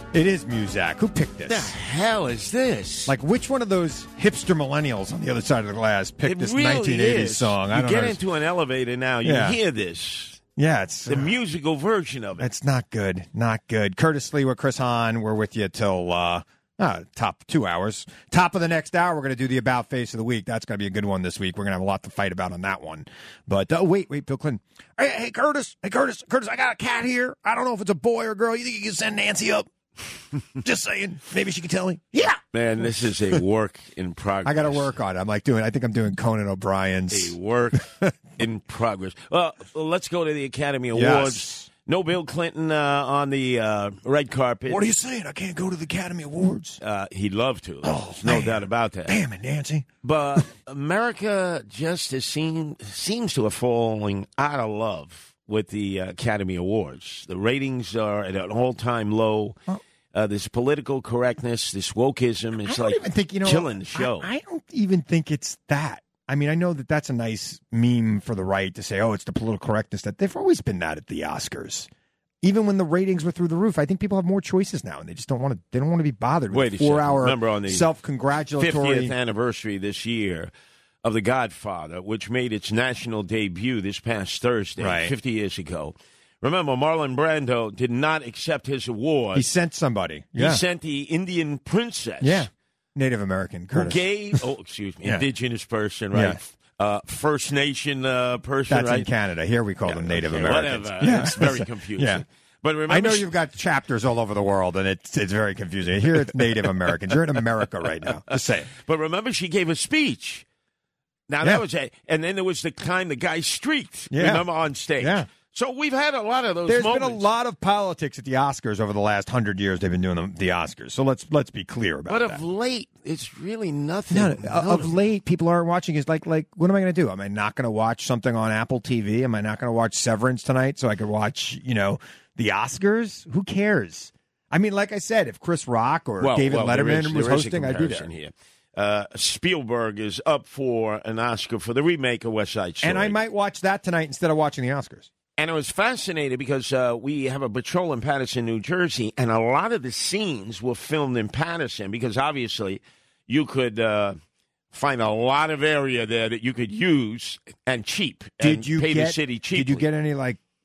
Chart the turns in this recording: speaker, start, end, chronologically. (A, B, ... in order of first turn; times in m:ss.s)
0:00.1-0:01.8 A
0:01.5-0:03.2 B
0:03.1-0:08.2 A
0:06.2-0:10.4 B
0:09.2-0:09.6 A
0:10.6-0:11.4 A
0:11.1-0:12.5 B
0:12.4-0:29.7 A
0:30.6-0:32.4 A
0:32.5-0:34.9 B
0:34.4-0:38.1 A
0:37.1-0:44.9 B
0:40.9-0:41.7 A
0:44.7-0:46.8 A
0:46.8-0:49.2 B
0:47.8-0:50.4 A
0:50.0-0:59.6 B
1:00.1-1:04.3 B
1:02.6-1:11.9 A
1:12.4-1:19.1 A
1:16.5-1:17.8 B
1:18.6-1:20.5 B
1:21.0-1:29.5 B
1:24.8-1:25.1 A
1:29.4-1:30.6 A
1:30.4-1:32.5 B
1:32.2-1:34.4 A
1:33.7-1:39.1 B
1:36.1-1:36.4 A
1:38.7-1:42.2 A
1:39.8-1:43.3 B
1:42.9-1:48.7 A
1:48.3-1:50.5 B
1:51.3-1:57.3 B
1:54.1-1:55.3 A
1:56.7-2:02.4 A
2:02.1-2:04.9 B
2:04.1-2:18.1 A
2:16.2-2:23.2 B
2:22.8-2:25.1 A
2:25.4-2:34.2 B
2:34.7-2:39.8 B
2:38.4-2:40.4 A